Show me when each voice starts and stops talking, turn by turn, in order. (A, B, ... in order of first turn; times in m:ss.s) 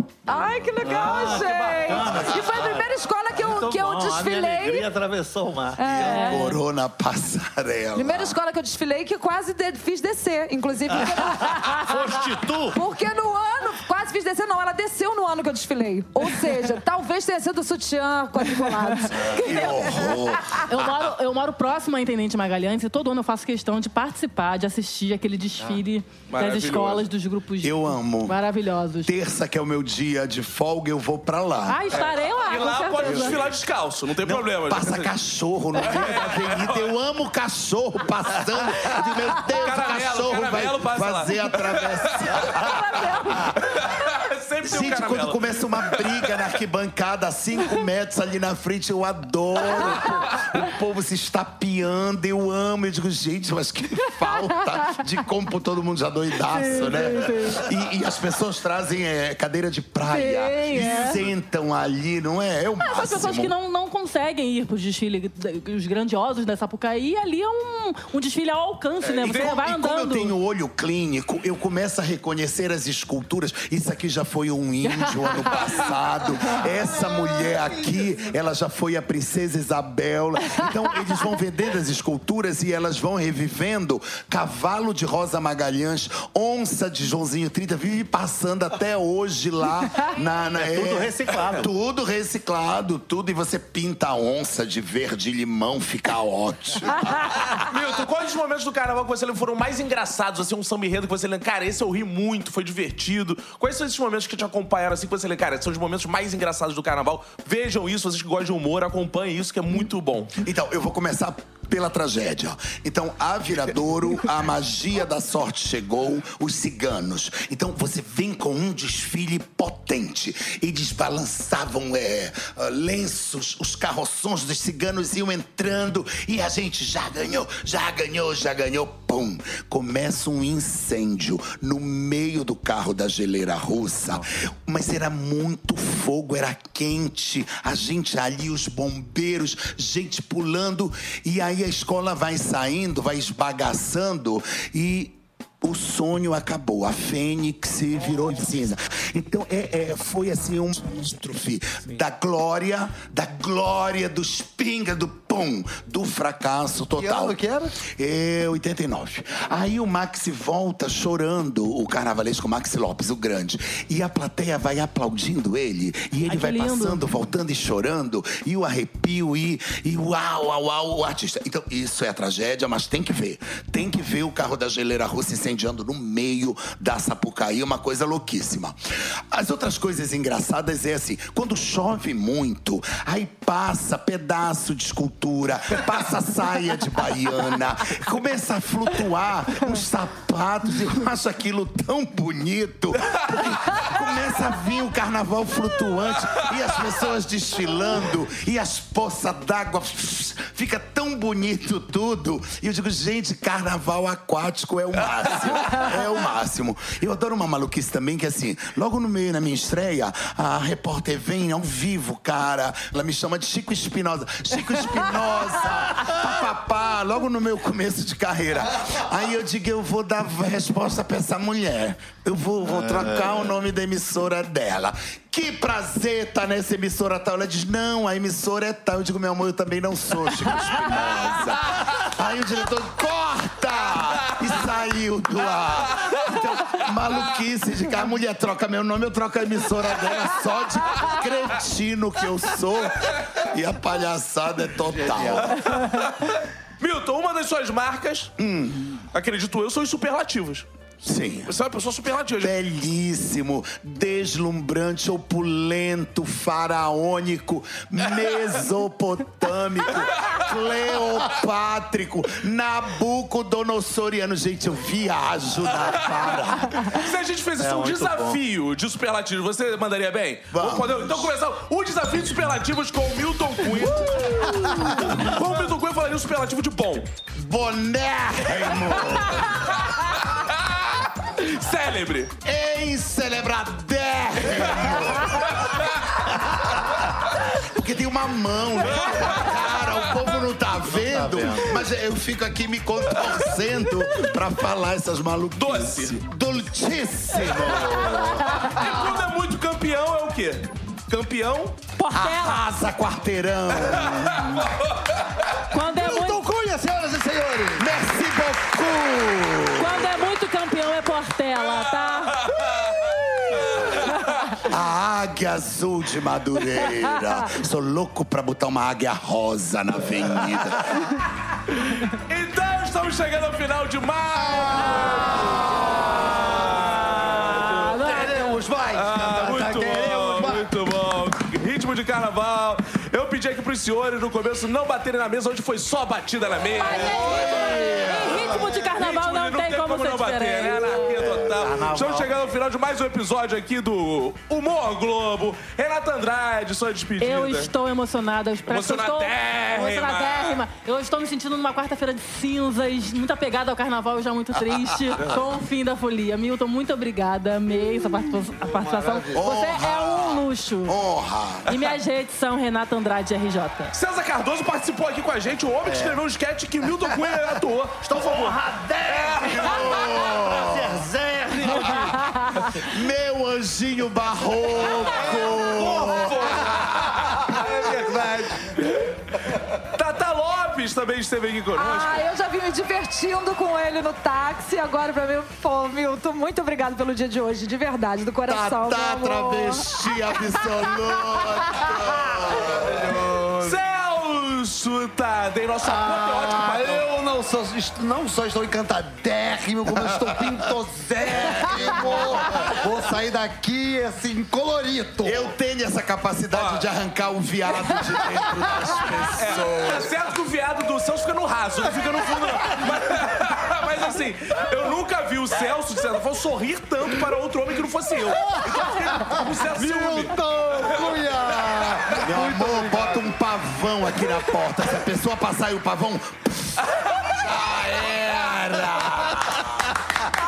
0:00.3-0:04.9 A
0:00.3-0:06.2 B
0:05.8-0:06.6 A
0:05.8-0:08.4 C
0:06.0-0:06.5 D
0:08.0-0:20.2 A
0:11.6-0:12.8 B
0:19.1-0:29.1 D
0:19.2-0:21.1 C
0:26.3-0:27.1 E
0:27.6-0:28.4 C
0:29.0-0:31.8 C
0:31.7-0:33.4 D
0:31.9-0:35.1 E
0:33.0-0:33.4 C
0:34.2-0:43.4 C
0:35.8-0:36.9 E
0:39.4-0:42.8 E
0:42.5-0:44.1 D
0:43.5-0:46.5 E
0:44.6-1:03.5 C
0:56.4-0:57.7 D
1:00.1-1:01.2 D
1:02.8-1:10.4 D
1:09.0-1:37.6 C
1:14.8-1:15.9 D
1:30.6-1:31.6 B
1:37.6-1:50.4 E
1:50.4-4:05.6 C
2:37.0-2:37.8 F
2:46.3-2:47.0 D
3:25.4-3:25.9 E
4:04.9-4:05.6 B
4:05.4-4:08.3 E
4:08.4-4:09.0 C
4:09.1-4:10.7 E
4:11.0-4:11.5 C
4:11.5-4:12.5 E
4:12.4-4:27.0 C
4:26.8-4:37.1 E
4:27.6-4:28.4 B
4:30.5-4:31.3 C
4:34.2-4:35.1 D
4:37.4-4:39.8 C
4:39.1-4:42.4 E
4:42.4-4:58.8 C
4:49.1-4:50.0 E
4:50.9-4:51.8 B
4:55.6-4:56.2 E
4:57.5-5:01.8 E
5:02.0-5:02.6 D
5:02.1-5:04.7 C
5:04.0-5:05.4 E
5:05.7-5:06.4 D
5:06.0-5:06.3 B
5:06.0-5:07.9 F
5:07.8-5:10.1 C
5:09.7-5:12.5 D
5:12.4-5:14.6 E
5:12.8-5:13.8 F
5:13.9-5:14.3 D
5:14.6-5:21.0 C
5:21.8-5:28.3 E
5:24.4-5:26.6 F
5:26.8-5:28.6 D
5:28.0-5:30.6 B
5:28.7-5:29.0 F
5:28.9-5:47.7 E
5:29.9-5:30.6 F
5:36.8-5:38.6 A
5:36.8-5:41.4 D
5:37.2-5:38.0 C
5:41.2-5:42.3 B
5:47.2-6:01.0 D
5:48.7-5:50.6 E
5:58.6-5:59.5 F
5:59.4-6:01.7 C
6:01.7-6:03.9 D
6:03.9-6:10.2 E
6:05.9-6:06.2 B
6:08.1-6:12.4 B
6:09.4-6:11.1 C
6:12.3-6:12.7 D
6:12.6-6:17.2 C
6:15.0-6:22.3 E
6:15.0-6:16.8 B
6:17.8-6:18.6 B
6:18.1-6:18.4 F
6:21.7-6:32.3 A
6:28.4-6:32.9 C
6:32.6-6:33.8 F
6:33.6-6:37.1 E
6:35.8-6:45.5 F
6:41.3-6:42.7 C
6:45.2-6:50.1 C
6:46.5-6:46.9 E
6:49.3-7:02.2 E
6:58.5-7:03.3 F
7:02.2-7:09.9 C
7:06.9-7:07.2 E